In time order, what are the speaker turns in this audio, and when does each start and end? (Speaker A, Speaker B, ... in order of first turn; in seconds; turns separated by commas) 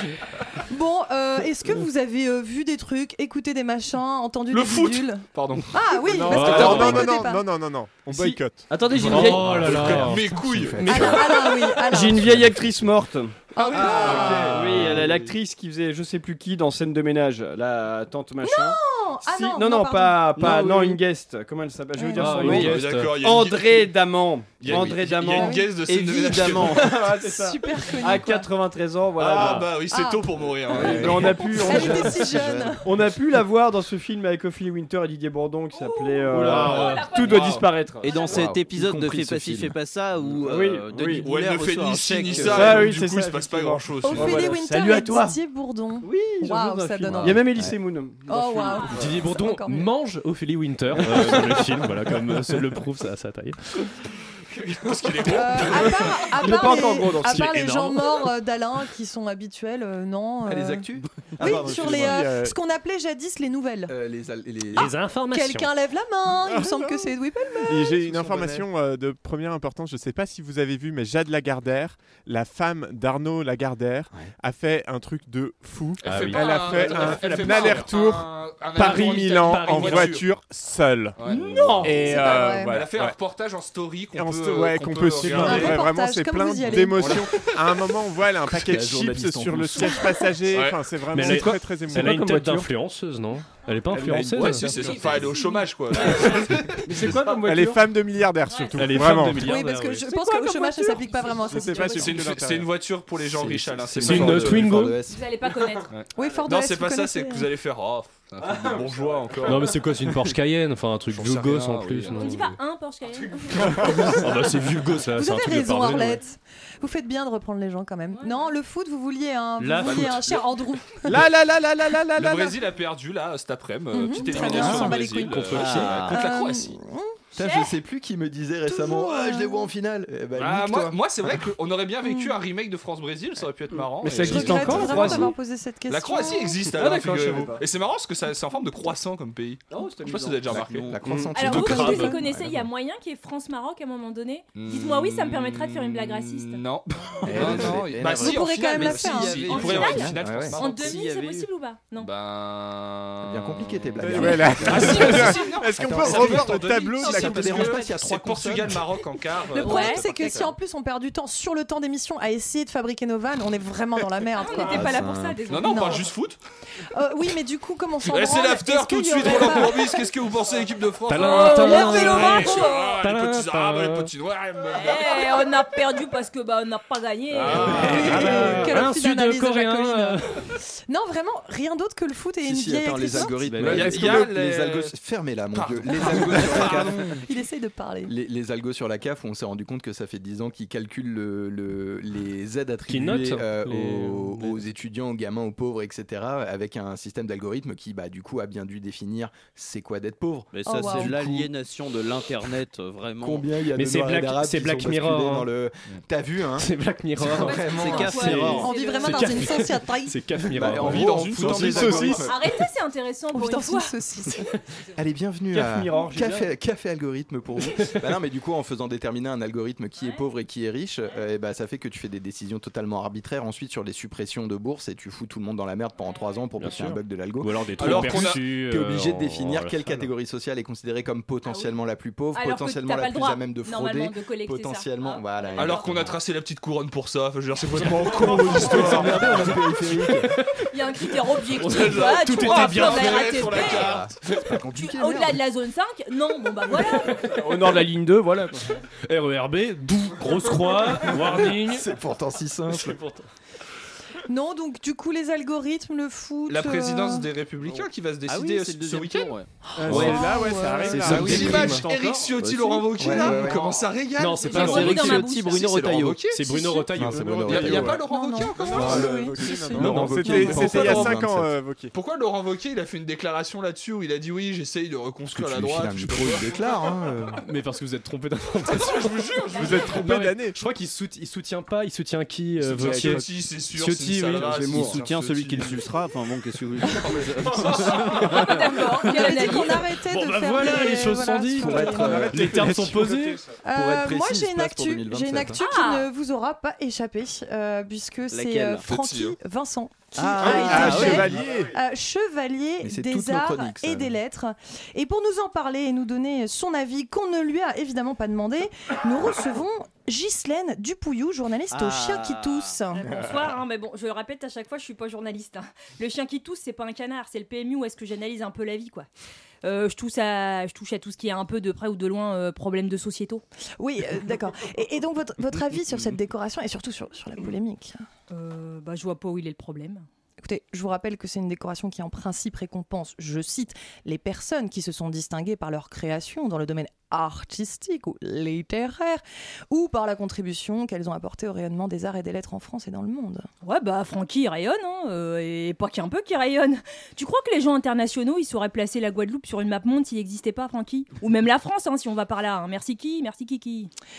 Speaker A: 0.6-7.5, Speaker B: 4.5-5.8, Speaker C: 6.1-8.7, Speaker B: 6.3-6.9, Speaker D: 6.3-7.0, Speaker E: 8.1-9.9, Speaker B: 8.9-11.3, Speaker D: 9.0-11.5, Speaker F: 9.2-11.2, Speaker A: 10.8-12.3, Speaker E: 11.8-25.6, Speaker B: 13.6-15.3, Speaker A: 13.6-14.6, Speaker A: 18.4-20.5, Speaker G: 20.4-20.9, Speaker A: 22.0-22.6, Speaker D: 22.1-23.2, Speaker B: 22.6-24.0, Speaker B: 24.6-27.0, Speaker F: 24.7-25.0, Speaker A: 25.3-25.7, Speaker G: 25.7-26.9, Speaker E: 26.5-29.7, Speaker A: 27.2-28.5, Speaker B: 29.2-31.5, Speaker A: 29.9-30.3, Speaker E: 30.7-38.2, Speaker F: 30.9-32.9, Speaker A: 30.9-32.8, Speaker H: 35.8-38.5, Speaker D: 36.3-37.3, Speaker B: 36.5-37.7, Speaker G: 38.0-43.0, Speaker F: 38.2-39.8, Speaker E: 40.5-41.3, Speaker B: 41.2-44.5, Speaker E: 42.3-45.4, Speaker A: 44.0-47.5, Speaker E: 46.0-49.2, Speaker A: 48.3-49.9, Speaker D: 48.9-53.6, Speaker E: 51.0-51.8, Speaker B: 54.5-56.5, Speaker A: 55.2-60.9, Speaker E: 56.3-57.6, Speaker D: 57.2-58.2, Speaker F: 60.5-62.2, Speaker A: 61.4-63.9, Speaker C: 61.4-62.6, Speaker F: 63.9-65.0, Speaker D: 64.7-65.7, Speaker A: 64.8-68.0, Speaker C: 66.5-81.2, Speaker F: 68.0-68.7, Speaker B: 76.0-80.2, Speaker D: 76.0-77.6, Speaker D: 78.8-80.2, Speaker B: 81.2-85.8, Speaker E: 81.3-82.0, Speaker C: 81.8-83.2, Speaker A: 81.9-82.8, Speaker C: 84.1-92.4, Speaker A: 85.3-87.2, Speaker B: 87.0-87.5, Speaker F: 88.5-90.3, Speaker B: 90.5-90.9, Speaker D: 91.1-94.9, Speaker E: 91.2-92.7, Speaker B: 94.0-97.3, Speaker F: 94.1-94.5, Speaker H: 94.8-95.4, Speaker E: 96.8-97.9, Speaker C: 97.3-99.5, Speaker H: 98.5-98.8, Speaker D: 98.8-100.2, Speaker A: 99.4-102.2, Speaker C: 101.4-102.7, Speaker B: 101.8-104.8, Speaker F: 103.2-105.5, Speaker D: 104.0-105.0, Speaker H: 105.1-105.9, Speaker B: 105.9-109.9, Speaker A: 106.1-107.5, Speaker E: 108.5-108.8, Speaker D: 109.4-112.5, Speaker B: 111.1-112.5, Speaker H: 112.1-114.1, Speaker D: 113.7-116.2, Speaker A: 113.8-114.2, Speaker A: 115.1-121.2, Speaker H: 118.1-118.5, Speaker D: 119.6-120.3, Speaker B: 119.8-120.5, Speaker C: 121.1-122.6, Speaker B: 122.1-126.8, Speaker A: 123.9-127.2, Speaker F: 124.4-125.0, Speaker D: 124.5-126.2, Speaker G: 125.6-126.1, Speaker F: 127.3-131.0, Speaker H: 127.4-127.7, Speaker A: 128.7-129.7, Speaker B: 130.4-135.3, Speaker A: 132.0-132.3, Speaker E: 134.0-135.3, Speaker A: 134.2-136.7, Speaker B: 135.9-141.0, Speaker E: 136.8-137.6, Speaker E: 139.7-140.6, Speaker F: 140.5-142.7, Speaker D: 141.2-142.3, Speaker H: 141.3-146.6, Speaker A: 141.8-142.2, Speaker B: 144.6-151.1, Speaker F: 147.2-148.6, Speaker G: 147.5-147.7, Speaker A: 148.2-149.6, Speaker G: 148.6-151.5, Speaker H: 149.5-152.1, Speaker F: 149.8-150.6, Speaker B: 152.0-160.6, Speaker F: 153.2-158.9, Speaker C: 154.0-157.8, Speaker A: 159.5-165.0, Speaker H: 159.6-160.4, Speaker H: 164.4-166.0, Speaker F: 164.6-165.4, Speaker B: 165.4-166.4, Speaker A: 165.6-166.1, Speaker A: 166.9-170.1, Speaker B: 168.0-175.6, Speaker D: 171.1-174.1, Speaker H: 171.2-173.0, Speaker A: 171.6-172.9, Speaker H: 174.7-178.5, Speaker B: 177.3-178.9, Speaker D: 177.7-180.4, Speaker A: 177.7-183.3, Speaker F: 182.4-187.2, Speaker D: 183.4-184.1, Speaker B: 183.6-184.9, Speaker B: 185.5-187.2, Speaker A: 186.5-188.1, Speaker F: 188.1-201.5, Speaker D: 192.9-194.6, Speaker G: 200.5-203.5, Speaker A: 200.7-201.1, Speaker F: 203.2-208.6, Speaker D: 203.7-205.5, Speaker D: 206.6-212.2, Speaker H: 207.2-209.6, Speaker G: 207.7-208.7, Speaker A: 208.6-210.2, Speaker F: 210.5-212.4, Speaker B: 210.8-212.3, Speaker H: 212.2-213.9, Speaker A: 213.3-214.5, Speaker F: 214.9-236.2, Speaker E: 215.5-216.5, Speaker H: 220.0-220.2, Speaker D: 226.6-230.1, Speaker B: 227.8-228.5, Speaker H: 231.5-231.7, Speaker H: 232.3-236.2, Speaker B: 235.6-239.6, Speaker F: 237.9-240.3, Speaker D: 238.2-240.7, Speaker H: 240.7-244.0, Speaker D: 241.5-243.3, Speaker B: 241.6-244.2, Speaker F: 243.1-245.4, Speaker H: 244.7-247.3, Speaker E: 247.2-248.7, Speaker D: 249.1-251.9, Speaker F: 251.6-253.0, Speaker A: 254.3-257.3, Speaker B: 256.5-259.4, Speaker G: 257.6-260.1, Speaker A: 259.7-261.2, Speaker C: 259.8-261.7, Speaker G: 260.9-261.9, Speaker F: 260.9-261.8, Speaker D: 261.1-261.8, Speaker B: 261.1-266.8, Speaker G: 262.4-263.4, Speaker F: 263.0-263.9, Speaker D: 264.2-265.2, Speaker H: 264.4-265.6, Speaker G: 264.5-266.3, Speaker D: 266.3-267.9, Speaker F: 266.8-268.0, Speaker C: 267.1-268.0, Speaker B: 267.4-271.2, Speaker A: 268.1-269.9, Speaker C: 268.6-271.9, Speaker F: 268.7-271.6, Speaker D: 269.8-270.3, Speaker B: 271.9-276.8, Speaker F: 275.3-277.4, Speaker D: 277.4-284.9, Speaker B: 278.6-280.1, Speaker C: 279.6-280.6, Speaker B: 282.6-285.9, Speaker G: 282.9-283.2, Speaker G: 284.4-288.9, Speaker B: 287.0-288.5, Speaker H: 288.1-289.9, Speaker A: 289.0-292.3, Speaker D: 289.9-293.5, Speaker F: 291.6-293.1, Speaker C: 292.0-293.1, Speaker A: 293.6-313.1, Speaker F: 293.7-295.6, Speaker H: 295.6-296.1, Speaker G: 298.3-298.9, Speaker B: 298.8-299.4, Speaker G: 300.2-301.4, Speaker C: 300.4-301.8, Speaker F: 300.6-301.3, Speaker F: 302.8-304.1, Speaker G: 311.7-312.8, Speaker H: 312.9-319.1, Speaker H: 319.6-323.4, Speaker A: 323.8-328.0, Speaker H: 328.3-330.1, Speaker A: 330.4-343.5, Speaker H: 343.6-353.9